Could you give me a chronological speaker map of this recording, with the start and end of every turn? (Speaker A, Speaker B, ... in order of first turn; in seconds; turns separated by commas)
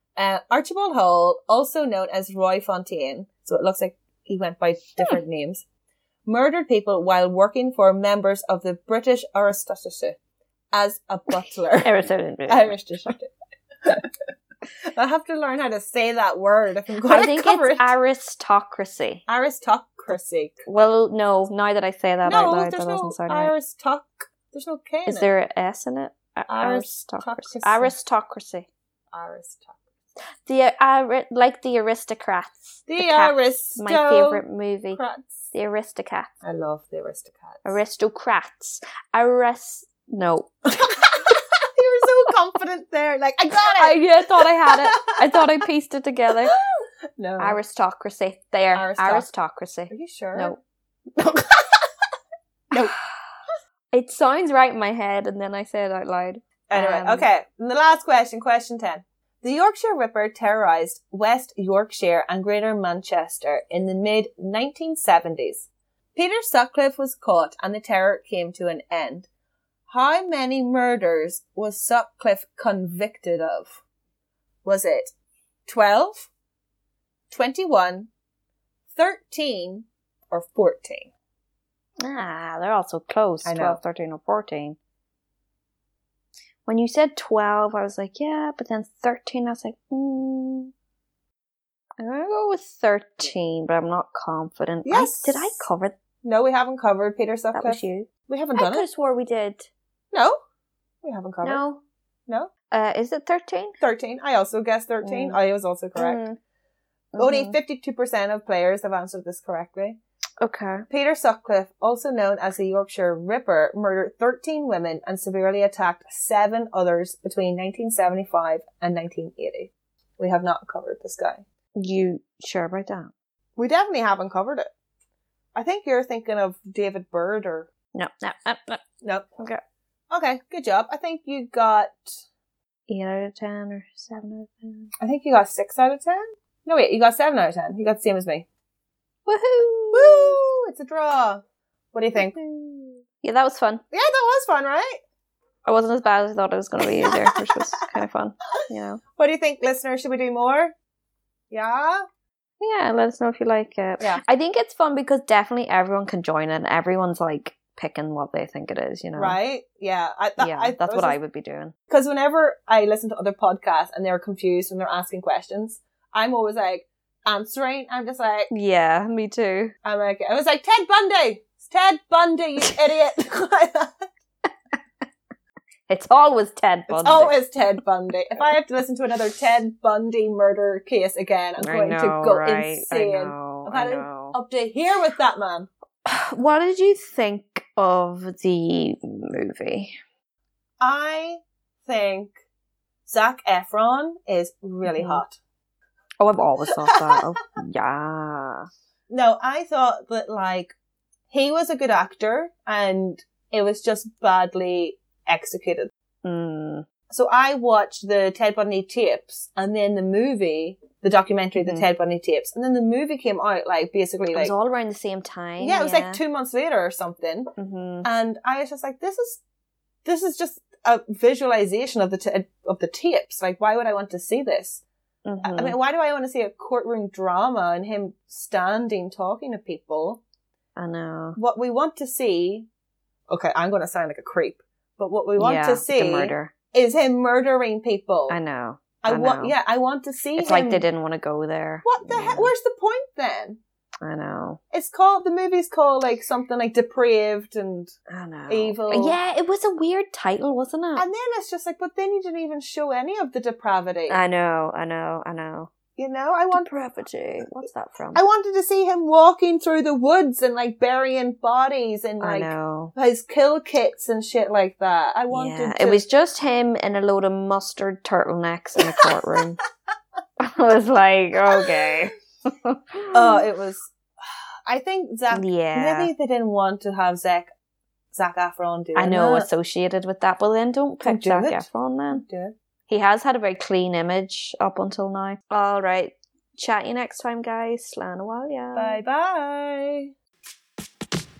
Speaker A: 0.1-5.6, Speaker A: 6.2-10.2, Speaker A: 10.7-11.9, Speaker B: 11.8-13.1, Speaker A: 12.5-14.1, Speaker A: 14.9-17.9, Speaker B: 17.1-19.2, Speaker A: 19.3-20.6, Speaker B: 20.6-23.5, Speaker A: 22.2-25.3, Speaker B: 25.1-28.7, Speaker A: 26.5-27.9, Speaker A: 29.1-29.8, Speaker B: 30.4-35.0, Speaker A: 32.9-35.5, Speaker B: 35.5-36.3, Speaker A: 36.4-37.7, Speaker B: 37.6-41.4, Speaker A: 41.0-45.1, Speaker B: 43.7-46.5, Speaker A: 46.5-47.6, Speaker B: 47.4-50.6, Speaker A: 48.7-49.3, Speaker A: 49.9-50.5, Speaker A: 51.2-51.8, Speaker B: 53.9-57.2, Speaker A: 56.7-69.3, Speaker A: 69.9-73.8, Speaker A: 74.6-75.1, Speaker A: 75.7-76.3, Speaker A: 77.3-78.1, Speaker A: 78.9-81.1, Speaker B: 82.0-84.8, Speaker A: 83.4-83.8, Speaker B: 86.7-90.7, Speaker B: 92.0-95.9, Speaker A: 94.8-95.6, Speaker A: 96.2-98.8, Speaker B: 97.5-99.7, Speaker A: 101.0-101.6, Speaker B: 101.4-101.8, Speaker B: 102.7-103.8, Speaker A: 103.8-106.2, Speaker B: 105.0-105.4, Speaker B: 106.0-106.4, Speaker B: 107.1-107.6, Speaker A: 107.2-110.0, Speaker B: 110.4-110.8, Speaker A: 110.9-121.4, Speaker B: 121.8-123.1, Speaker A: 123.6-124.7, Speaker A: 125.5-127.7, Speaker B: 127.9-128.8, Speaker A: 129.0-129.3, Speaker A: 130.1-132.2, Speaker B: 132.9-134.9, Speaker A: 135.0-138.4, Speaker B: 139.2-140.4, Speaker A: 139.9-142.3, Speaker B: 142.2-143.8, Speaker A: 143.9-145.0, Speaker B: 145.6-149.0, Speaker A: 146.8-147.4, Speaker A: 149.2-150.7, Speaker A: 151.5-152.0, Speaker B: 152.6-159.4, Speaker A: 159.2-161.2, Speaker B: 160.4-161.7, Speaker A: 161.9-168.5, Speaker B: 168.5-169.7, Speaker A: 169.8-174.1, Speaker B: 175.9-177.3, Speaker A: 176.9-185.7, Speaker B: 181.6-184.3, Speaker B: 186.1-189.9, Speaker A: 190.8-192.3, Speaker A: 193.0-195.4, Speaker B: 194.8-195.2, Speaker B: 196.2-198.7, Speaker A: 196.8-197.2, Speaker A: 199.1-200.7, Speaker A: 201.3-205.9, Speaker B: 206.2-206.8, Speaker A: 207.1-214.5, Speaker B: 211.6-211.8, Speaker B: 214.3-216.2, Speaker A: 215.6-217.5, Speaker B: 217.6-218.1, Speaker A: 218.0-219.4, Speaker A: 220.0-224.8, Speaker B: 225.2-225.8, Speaker A: 225.4-230.2, Speaker B: 230.8-231.4, Speaker A: 231.4-232.7, Speaker A: 233.3-238.4, Speaker B: 235.4-236.5, Speaker B: 238.3-239.5, Speaker A: 239.0-240.9, Speaker B: 240.4-242.5, Speaker A: 241.8-243.6, Speaker B: 244.0-244.6, Speaker A: 244.7-247.9, Speaker B: 248.1-251.1, Speaker A: 248.5-249.2, Speaker A: 251.0-254.2, Speaker B: 254.1-255.7, Speaker A: 256.0-256.6, Speaker B: 256.5-258.2, Speaker A: 258.1-266.0, Speaker B: 262.2-262.9, Speaker B: 265.3-269.6, Speaker A: 268.8-269.1, Speaker B: 270.4-273.4, Speaker A: 273.1-277.5, Speaker B: 275.3-276.1, Speaker A: 278.1-279.5, Speaker B: 278.9-282.2, Speaker A: 281.0-282.5, Speaker B: 282.9-289.0, Speaker A: 288.7-290.1